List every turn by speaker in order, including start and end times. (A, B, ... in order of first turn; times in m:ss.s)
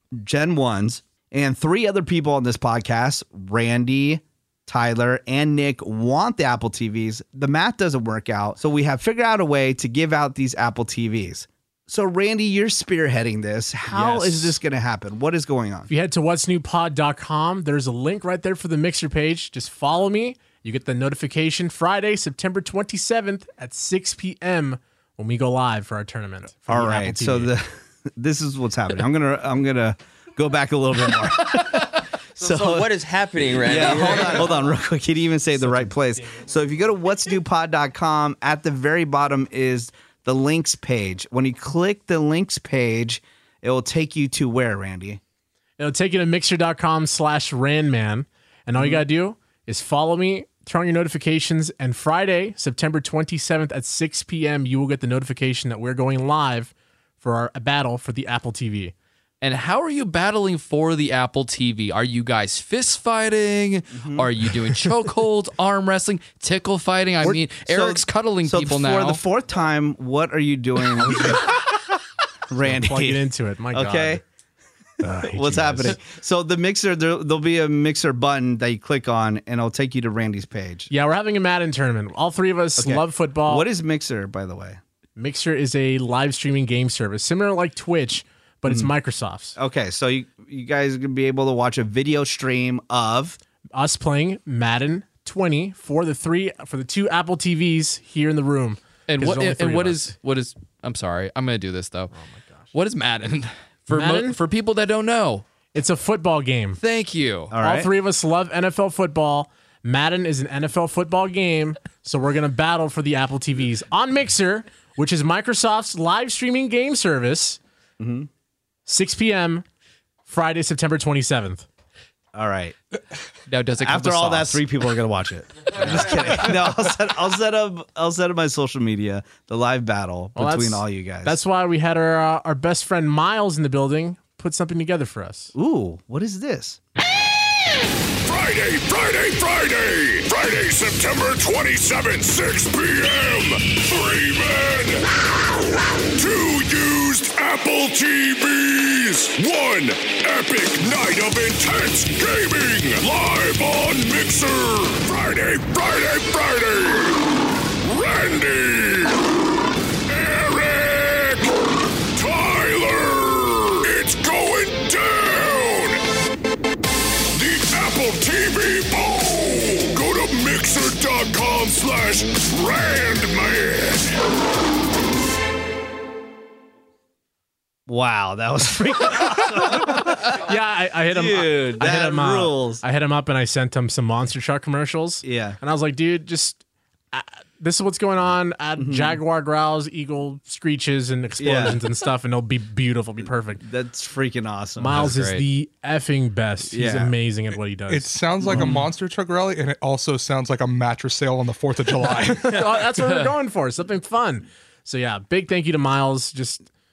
0:00.2-0:15.9 A
0:13.9-0:14.6 B
0:15.9-0:27.5 B
0:26.7-0:27.6 A
0:28.2-0:32.9 A
0:32.4-0:34.6 C
0:33.5-0:45.2 A
0:45.8-0:58.9 B
0:48.7-0:49.0 A
0:59.4-1:09.2 D
1:03.9-1:04.4 A
1:07.2-1:11.6 A
1:12.5-1:14.2 A
1:12.6-1:14.2 B
1:15.0-1:16.0 B
1:15.2-1:20.9 A
1:20.9-1:23.6 B
1:22.8-1:24.8 A
1:25.2-1:29.6 B
1:28.6-1:28.9 A
1:29.6-1:33.4 A
1:33.7-1:40.1 B
1:39.1-1:42.1 D
1:42.1-1:42.7 B
1:42.7-1:45.4 D
1:43.9-1:44.4 B
1:45.7-1:46.8 B
1:46.8-1:47.6 D
1:47.5-1:47.9 A
1:47.6-1:57.6 B
1:58.0-1:58.3 A
1:58.8-1:59.6 B
2:00.2-2:01.6 B
2:02.3-2:02.7 A
2:03.5-2:04.6 D
2:03.8-2:11.4 A
2:05.8-2:06.3 D
2:10.3-2:15.5 B
2:15.5-2:16.8 A
2:18.2-2:37.2 E
2:37.8-2:39.2 E
2:40.1-2:41.5 E
2:42.1-2:46.0 E
2:47.3-2:54.1 E
2:57.9-3:00.5 A
2:59.6-3:06.6 B
3:01.1-3:02.8 A
3:05.2-3:05.6 A
3:07.1-3:13.6 B
3:08.8-3:09.2 A
3:11.4-3:11.8 A
3:13.6-3:15.1 A
3:14.8-3:18.7 B
3:14.9-3:15.4 D
3:16.7-3:17.1 A
3:17.9-3:22.7 F
3:18.4-3:18.8 A
3:22.4-3:26.6 B
3:23.0-3:23.3 D